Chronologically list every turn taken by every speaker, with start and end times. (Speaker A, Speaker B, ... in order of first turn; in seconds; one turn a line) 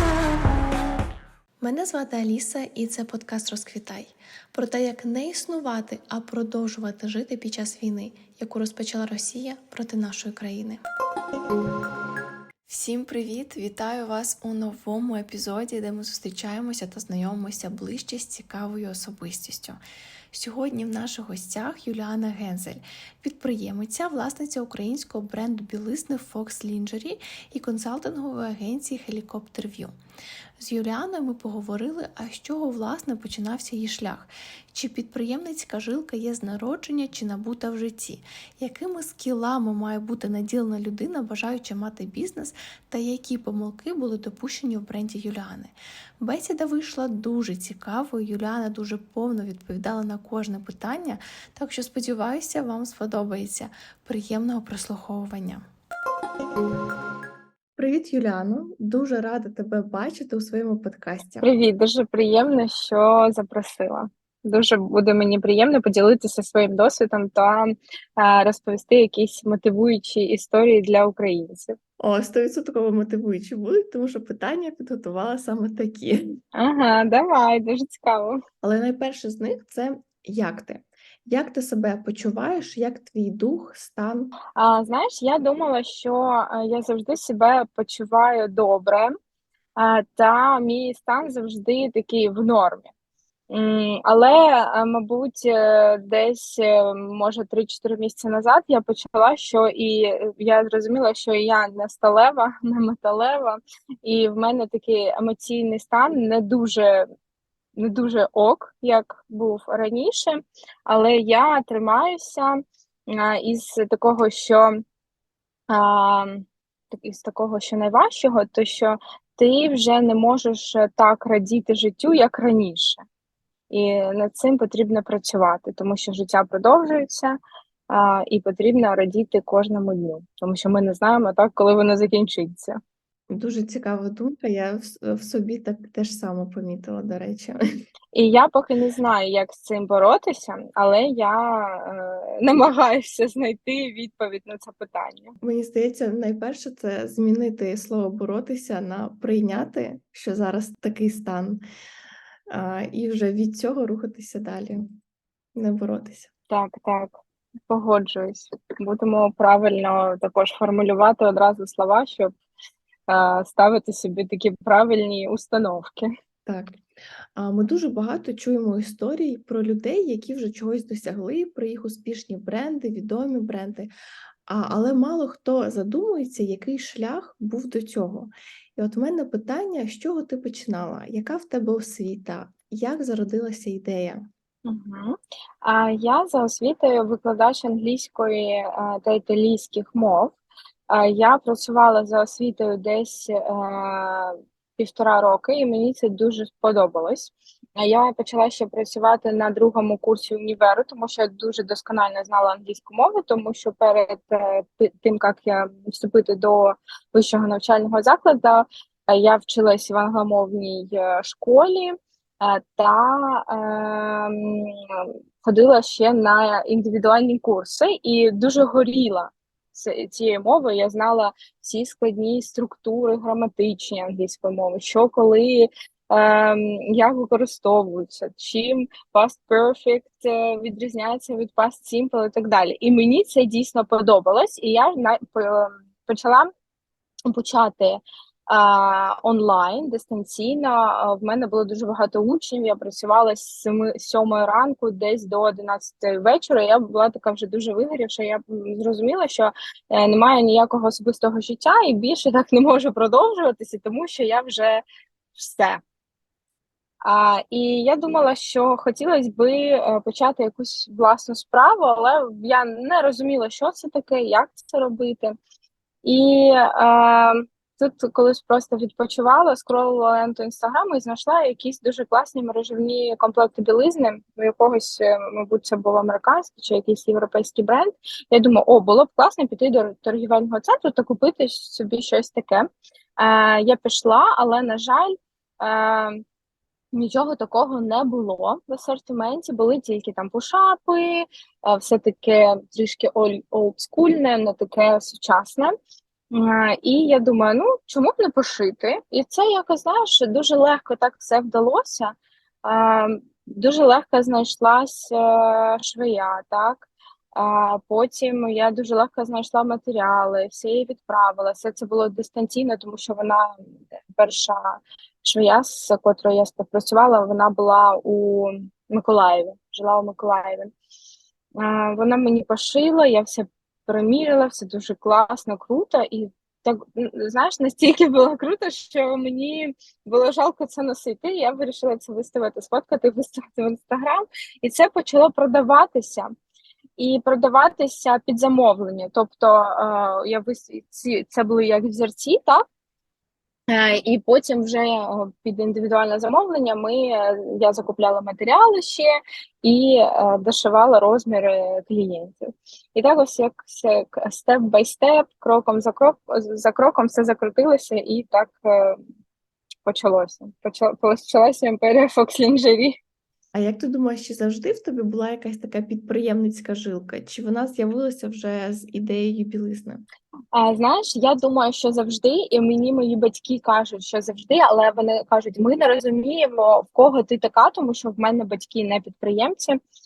Speaker A: 1.6-10.8
Speaker A: 12.7-19.8
Speaker A: 20.3-29.9
Speaker A: 30.6-55.6
Speaker A: 57.8-61.5
Speaker B: 61.4-71.8
Speaker A: 72.0-76.3
Speaker B: 76.5-78.4
Speaker A: 78.6-84.3
Speaker B: 84.5-89.1
Speaker B: 89.8-92.9
Speaker B: 93.5-107.0
Speaker B: 107.8-114.8
Speaker B: 115.7-123.0
Speaker B: 123.7-127.4
Speaker B: 127.9-132.8
Speaker A: 133.3-137.6
Speaker B: 138.1-145.3
Speaker A: 145.4-151.6
Speaker A: 152.5-154.9
Speaker A: 155.5-156.3
Speaker B: 156.5-157.2
Speaker B: 157.7-162.3
Speaker B: 163.1-166.1
Speaker A: 166.4-166.8
Speaker A: 167.3-173.9
Speaker A: 174.5-184.2
Speaker B: 184.6-190.3
Speaker B: 190.9-236.5
Speaker B: 237.3-254.8
Speaker B: 255.3-255.8
Speaker B: 257.0-265.4
Speaker B: 266.0-286.2
Speaker B: 286.9-295.7
Speaker B: 296.3-313.6
Speaker B: 314.1-320.7
Speaker B: 321.6-336.3
Speaker B: 337.0-342.6
Speaker B: 343.7-349.1
Speaker B: 349.6-359.0
Speaker B: 359.8-363.0
Speaker A: 363.5-370.0
Speaker B: 370.5-379.8